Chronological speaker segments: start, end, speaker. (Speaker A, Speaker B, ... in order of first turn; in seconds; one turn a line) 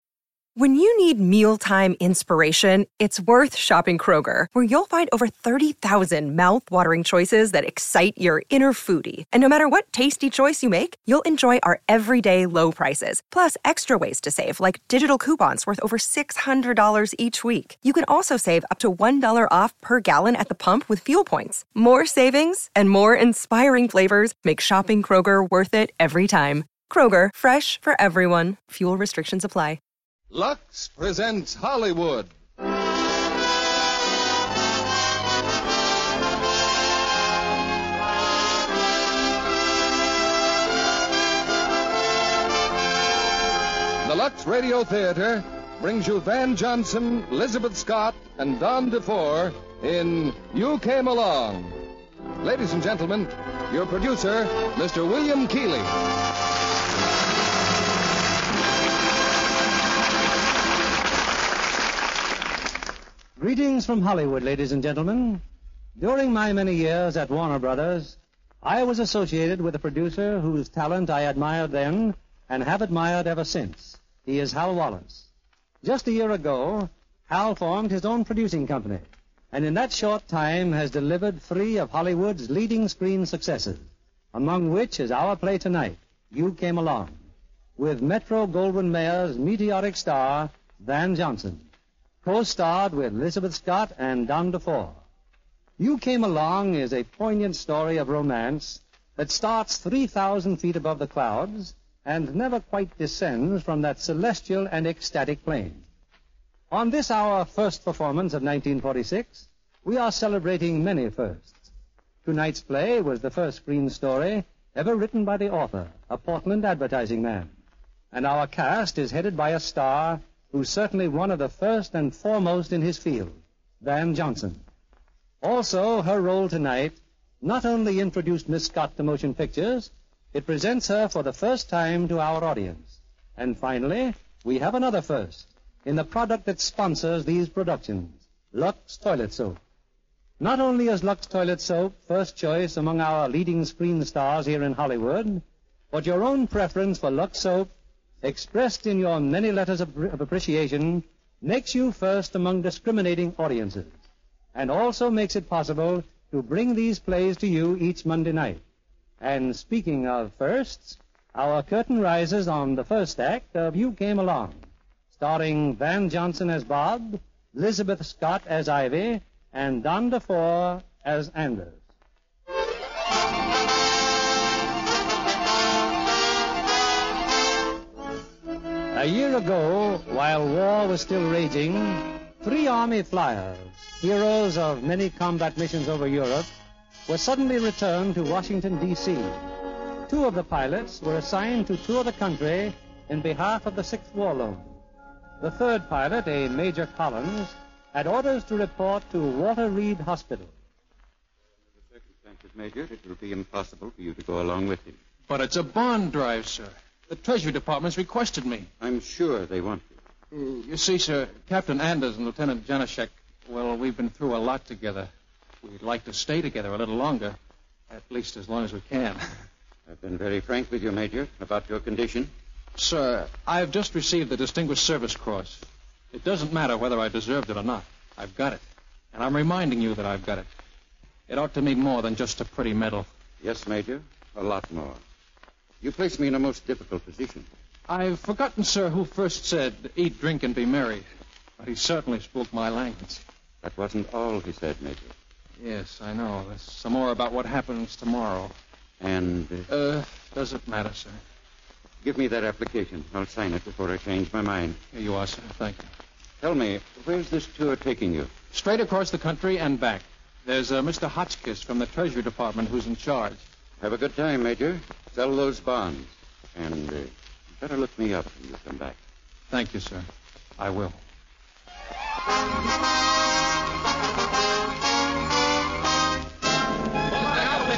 Speaker A: 0.6-29.8
Speaker B: 30.3-32.3
Speaker B: 44.0-51.8
Speaker B: 52.4-55.9
Speaker C: 63.4-65.4
Speaker C: 66.0-75.3
Speaker C: 75.8-87.2
Speaker C: 87.8-91.7
Speaker C: 92.2-95.0
Speaker C: 95.8-105.8
Speaker C: 106.7-111.7
Speaker C: 112.2-117.5
Speaker C: 118.1-124.6
Speaker C: 125.4-139.6
Speaker C: 140.4-147.7
Speaker C: 148.2-154.0
Speaker C: 154.5-158.6
Speaker C: 159.2-171.8
Speaker C: 178.9-186.5
Speaker C: 187.1-189.5
Speaker C: 190.1-194.8
Speaker C: 195.4-200.6
Speaker D: 202.0-205.0
Speaker E: 205.3-208.7
Speaker D: 208.8-210.0
Speaker E: 210.3-215.1
Speaker E: 215.6-217.4
Speaker E: 217.9-219.2
Speaker D: 219.9-222.3
Speaker E: 222.8-230.5
Speaker E: 231.3-233.1
Speaker D: 233.4-235.0
Speaker D: 235.8-237.5
Speaker E: 237.9-241.1
Speaker E: 241.6-243.2
Speaker D: 243.6-245.1
Speaker E: 245.6-248.5
Speaker D: 249.0-249.7
Speaker E: 249.7-251.2
Speaker D: 252.0-254.8
Speaker E: 254.9-255.9
Speaker D: 256.4-258.3
Speaker E: 258.5-263.4
Speaker D: 263.8-269.0
Speaker E: 269.5-270.1
Speaker E: 270.6-271.0